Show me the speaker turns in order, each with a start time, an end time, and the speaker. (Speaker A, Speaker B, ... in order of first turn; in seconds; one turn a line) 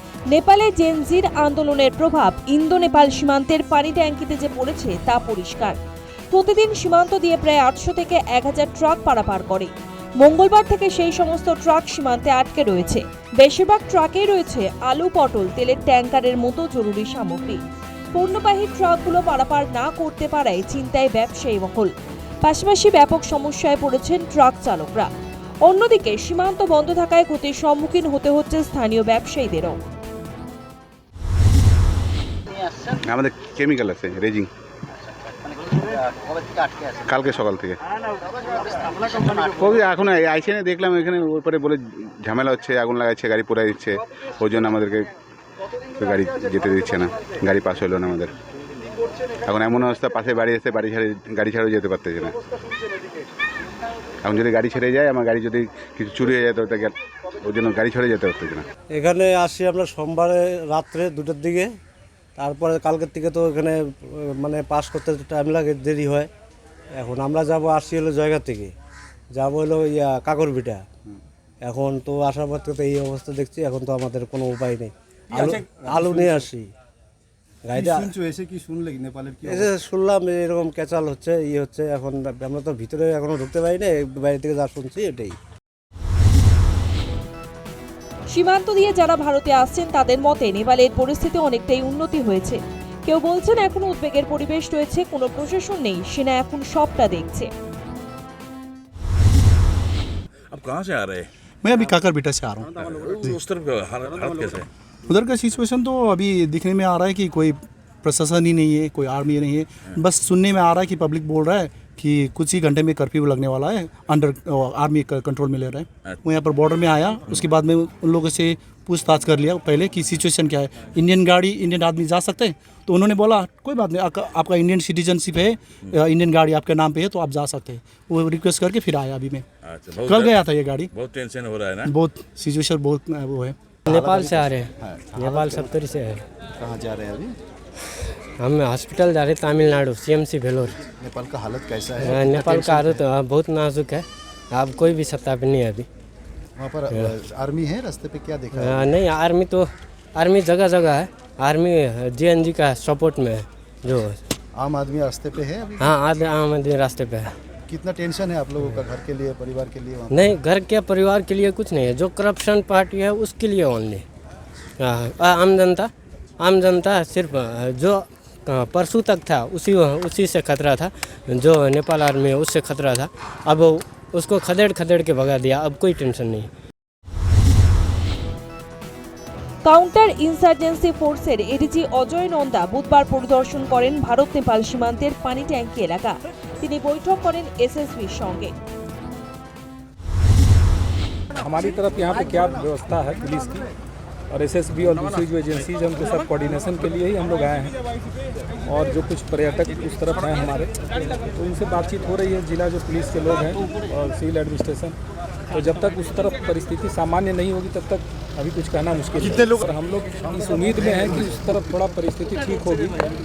Speaker A: 0.3-5.8
Speaker A: 6.3-17.6
Speaker A: 18.1-21.9
Speaker A: 22.4-25.1
Speaker A: 25.6-29.8
Speaker B: 32.9-34.5
Speaker B: 37.0-37.8
Speaker B: 38.7-45.1
Speaker B: 46.0-48.3
Speaker B: 49.5-52.4
Speaker B: 54.2-58.7
Speaker C: 59.0-61.7
Speaker C: 62.4-66.3
Speaker C: 67.0-68.7
Speaker C: 69.3-70.9
Speaker C: 71.6-76.7
Speaker C: 77.7-78.2
Speaker D: 78.4-79.4
Speaker C: 79.4-85.4
Speaker A: 88.3-97.5
Speaker E: 100.5-101.3
Speaker F: 101.6-102.7
Speaker E: 102.8-104.7
Speaker F: 105.1-129.4
Speaker E: 129.7-130.4
Speaker F: 130.1-130.9
Speaker E: 130.9-131.9
Speaker F: 131.8-133.6
Speaker G: 133.9-136.2
Speaker D: 134.9-135.6
Speaker D: 136.6-137.3
Speaker G: 138.4-140.8
Speaker D: 141.1-142.8
Speaker G: 142.0-145.9
Speaker G: 146.9-147.2
Speaker D: 147.1-148.8
Speaker G: 148.5-154.2
Speaker D: 154.8-155.7
Speaker G: 155.8-157.3
Speaker D: 157.8-159.8
Speaker G: 160.1-164.0
Speaker G: 164.8-176.5
Speaker A: 179.6-188.5
Speaker H: 191.3-193.7
Speaker H: 194.3-197.7
Speaker H: 198.7-205.0
Speaker H: 205.5-213.0